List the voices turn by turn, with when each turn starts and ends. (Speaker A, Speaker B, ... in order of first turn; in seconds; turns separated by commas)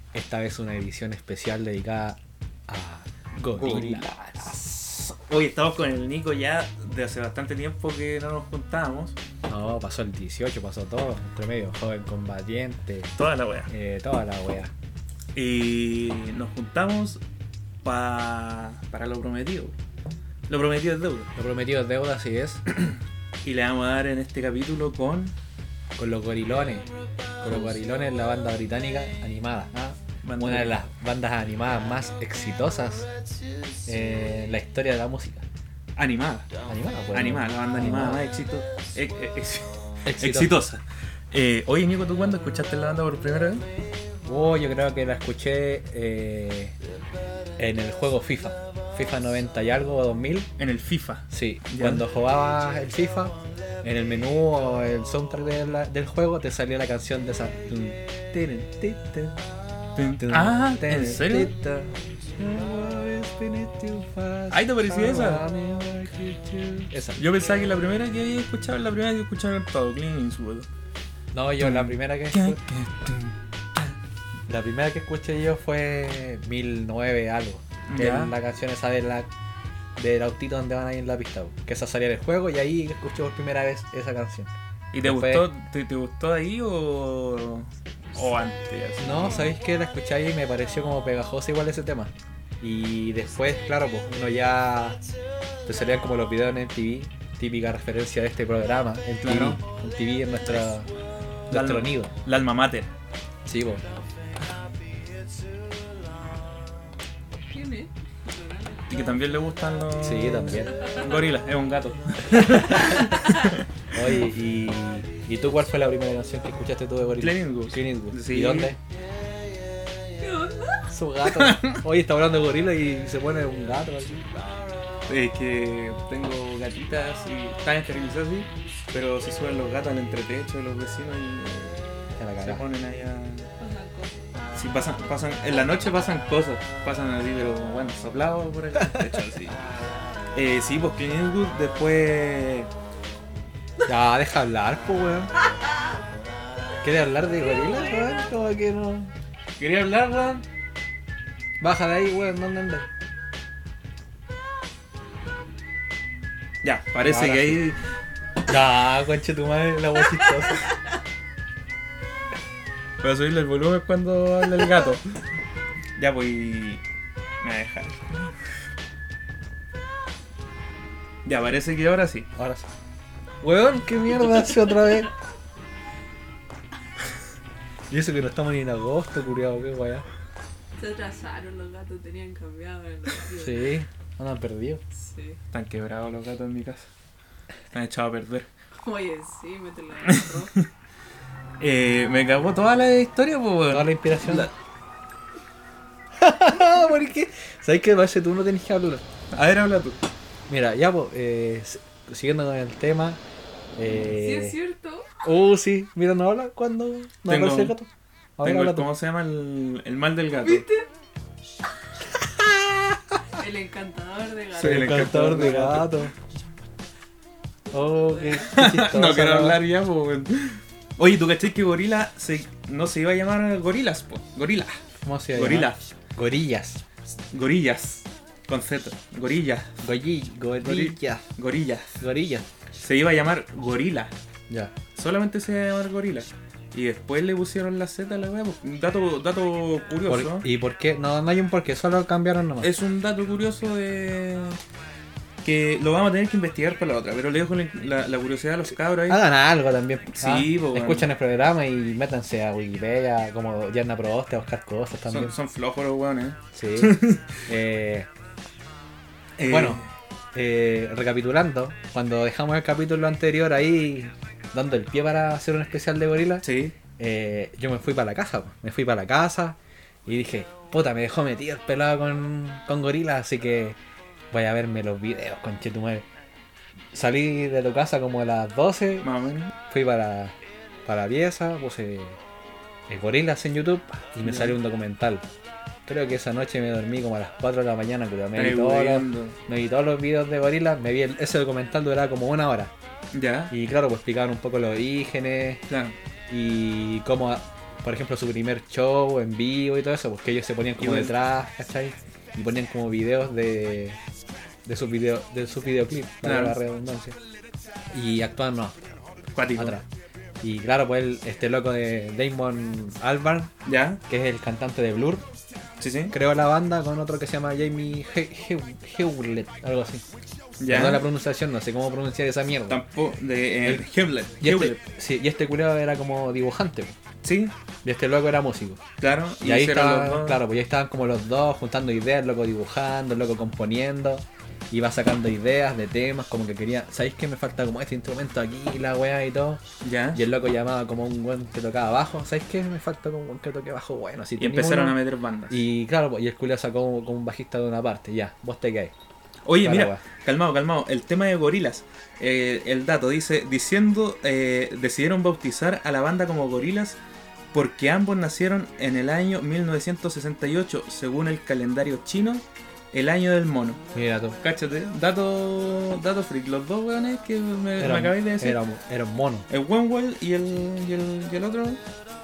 Speaker A: 0.1-4.5, Speaker B: 3.5-9.2, Speaker A: 9.5-13.2, Speaker B: 13.2-13.7, Speaker A: 13.7-14.7, Speaker B: 15.3-17.2, Speaker B: 17.8-19.7, Speaker B: 20.5-21.3, Speaker A: 21.3-22.7, Speaker B: 23.4-25.3, Speaker A: 26.0-26.9, Speaker A: 27.4-33.1, Speaker B: 27.4-27.8, Speaker B: 30.2-30.8, Speaker A: 33.9-35.5, Speaker B: 36.0-36.5, Speaker A: 36.7-38.3, Speaker B: 37.1-43.6, Speaker A: 40.0-40.6, Speaker A: 44.3-46.8, Speaker A: 47.6-50.5, Speaker B: 50.6-52.0, Speaker A: 51.3-59.4, Speaker B: 60.0-61.5, Speaker A: 60.2-67.2, Speaker B: 64.5-65.5, Speaker B: 67.2-70.7, Speaker A: 71.3-72.6, Speaker B: 71.6-73.4, Speaker A: 74.5-79.3, Speaker B: 77.9-78.3, Speaker A: 80.0-84.5, Speaker B: 84.9-89.6, Speaker A: 85.0-85.5, Speaker A: 89.0-95.0, Speaker A: 95.7-100.9, Speaker B: 99.2-99.6, Speaker A: 101.5-102.1, Speaker B: 101.5-102.9, Speaker A: 103.5-103.8, Speaker C: 107.5-109.1, Speaker B: 108.9-113.7, Speaker A: 110.0-110.7, Speaker C: 110.8-111.1, Speaker A: 112.5-113.1, Speaker C: 113.0-113.5, Speaker A: 113.9-118.8, Speaker B: 117.2-118.7, Speaker C: 120.2-120.8, Speaker A: 120.9-124.2, Speaker B: 121.2-121.8, Speaker B: 125.1-131.8, Speaker A: 132.2-132.6, Speaker B: 132.4-133.5, Speaker C: 133.6-134.2, Speaker B: 134.5-139.6, Speaker B: 140.3-142.7, Speaker A: 143.8-145.3, Speaker A: 146.8-149.1, Speaker B: 149.6-150.4, Speaker A: 151.6-152.9, Speaker B: 156.6-157.8, Speaker A: 157.0-157.6, Speaker A: 158.5-160.7, Speaker B: 163.0-165.0, Speaker B: 166.0-166.8, Speaker B: 167.4-168.3, Speaker B: 171.2-172.3, Speaker A: 172.3-172.7, Speaker A: 173.4-175.1, Speaker A: 177.9-180.0, Speaker C: 180.8-183.7, Speaker A: 183.4-184.8, Speaker C: 184.9-185.4, Speaker B: 185.5-186.9, Speaker B: 187.7-188.5, Speaker C: 188.8-190.6, Speaker B: 190.1-190.5, Speaker B: 191.6-194.5, Speaker A: 193.7-194.5, Speaker A: 196.2-199.0, Speaker B: 199.3-200.0, Speaker A: 200.5-203.2, Speaker A: 203.7-204.6, Speaker C: 204.1-205.2, Speaker A: 205.2-208.9, Speaker B: 207.3-207.7, Speaker B: 208.4-210.7, Speaker C: 210.4-210.9, Speaker A: 212.2-213.2, Speaker C: 213.3-215.0, Speaker B: 214.6-216.0, Speaker A: 214.6-216.1, Speaker A: 217.7-219.6, Speaker C: 218.1-218.4, Speaker B: 218.5-224.8, Speaker A: 225.0-226.8, Speaker B: 225.3-225.8, Speaker B: 227.3-229.7, Speaker A: 229.8-231.2, Speaker B: 230.6-231.9, Speaker A: 232.0-232.4, Speaker B: 232.8-234.1, Speaker A: 234.5-234.7, Speaker B: 234.9-240.5, Speaker A: 240.1-242.7, Speaker B: 242.6-244.6, Speaker B: 245.4-249.2, Speaker A: 249.1-255.3, Speaker B: 250.2-251.1, Speaker B: 255.1-257.4, Speaker A: 256.5-258.1, Speaker B: 259.4-259.9, Speaker A: 259.5-259.8, Speaker A: 260.3-266.5, Speaker B: 266.4-266.8, Speaker A: 267.0-273.8, Speaker A: 274.3-276.1, Speaker A: 276.9-279.1, Speaker B: 279.0-279.5, Speaker A: 279.7-282.2, Speaker A: 282.9-285.2, Speaker B: 284.2-284.6, Speaker A: 285.9-292.7, Speaker B: 288.4-289.4, Speaker B: 293.1-293.5, Speaker A: 293.5-295.6, Speaker B: 295.7-296.0, Speaker A: 296.3-304.0, Speaker B: 300.8-301.1, Speaker A: 304.6-307.2, Speaker B: 306.2-306.6, Speaker A: 307.9-309.0, Speaker B: 309.3-309.8, Speaker A: 309.6-309.9, Speaker A: 310.4-313.5, Speaker B: 313.6-314.0, Speaker A: 314.1-315.2, Speaker B: 315.8-316.1, Speaker A: 316.1-320.1, Speaker B: 320.6-321.1, Speaker A: 320.7-322.8, Speaker B: 322.7-324.8, Speaker A: 324.4-327.0, Speaker B: 327.2-327.5, Speaker A: 327.8-328.8, Speaker B: 329.0-330.4, Speaker A: 329.4-339.6, Speaker B: 339.8-340.2, Speaker A: 340.1-345.0, Speaker B: 344.4-345.6, Speaker A: 345.5-348.9, Speaker B: 349.4-357.0, Speaker A: 349.6-350.0, Speaker B: 357.5-363.8, Speaker A: 363.9-364.4, Speaker B: 364.4-368.6, Speaker A: 367.8-369.5, Speaker B: 369.5-371.8